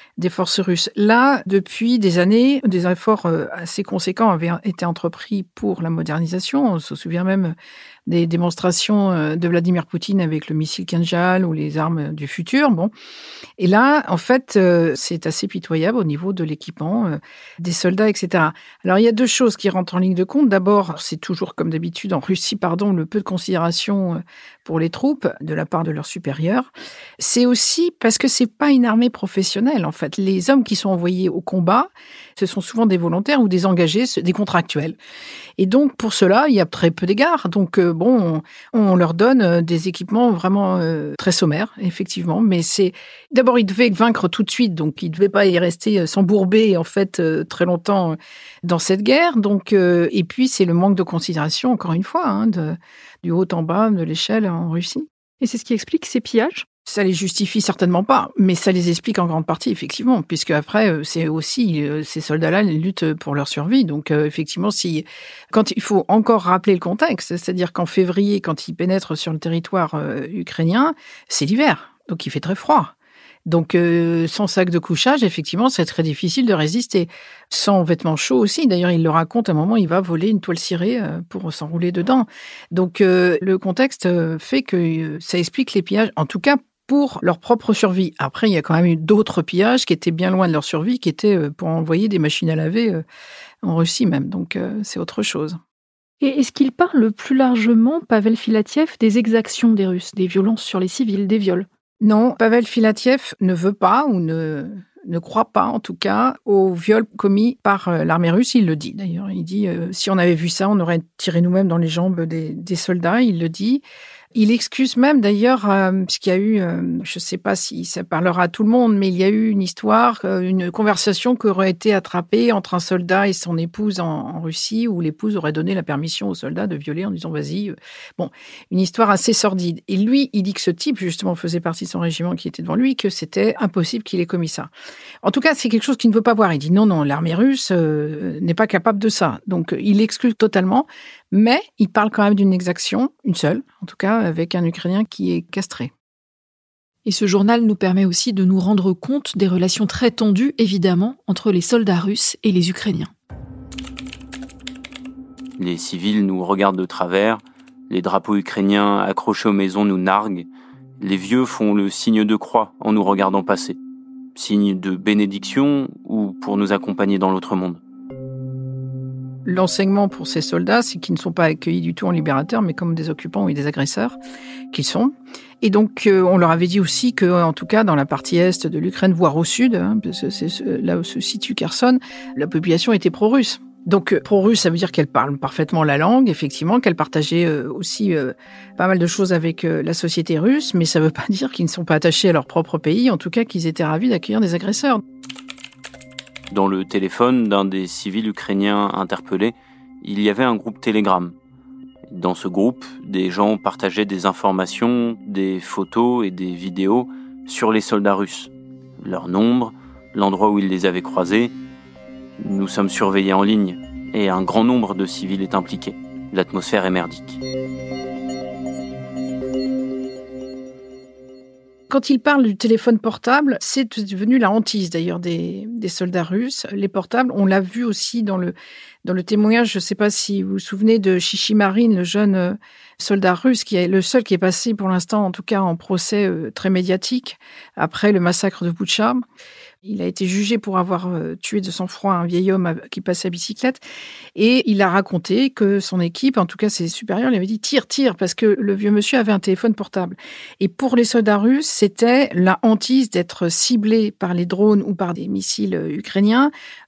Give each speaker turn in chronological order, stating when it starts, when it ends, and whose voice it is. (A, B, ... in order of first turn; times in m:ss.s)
0:00.2-0:07.5 A
0:08.1-0:12.9 A
0:13.6-0:35.0 A
0:35.6-0:55.1 A
0:55.4-0:56.6 B
0:56.9-1:12.9 A
1:13.4-1:33.0 A
1:33.6-1:35.6 A
1:36.2-1:41.6 B
1:42.0-1:53.8 A
1:54.3-2:14.7 A
2:15.2-2:25.9 A
2:27.0-2:33.1 B
2:35.6-2:40.5 C
2:41.0-2:43.8 C
2:44.4-2:47.8 C
2:49.4-2:54.2 A
2:54.7-3:15.0 A
3:16.5-3:21.3 C
3:22.1-3:31.5 C
3:32.4-3:37.4 C
3:41.9-3:48.5 A
3:49.0-3:59.2 A
3:59.8-4:03.8 A
4:04.4-4:16.5 A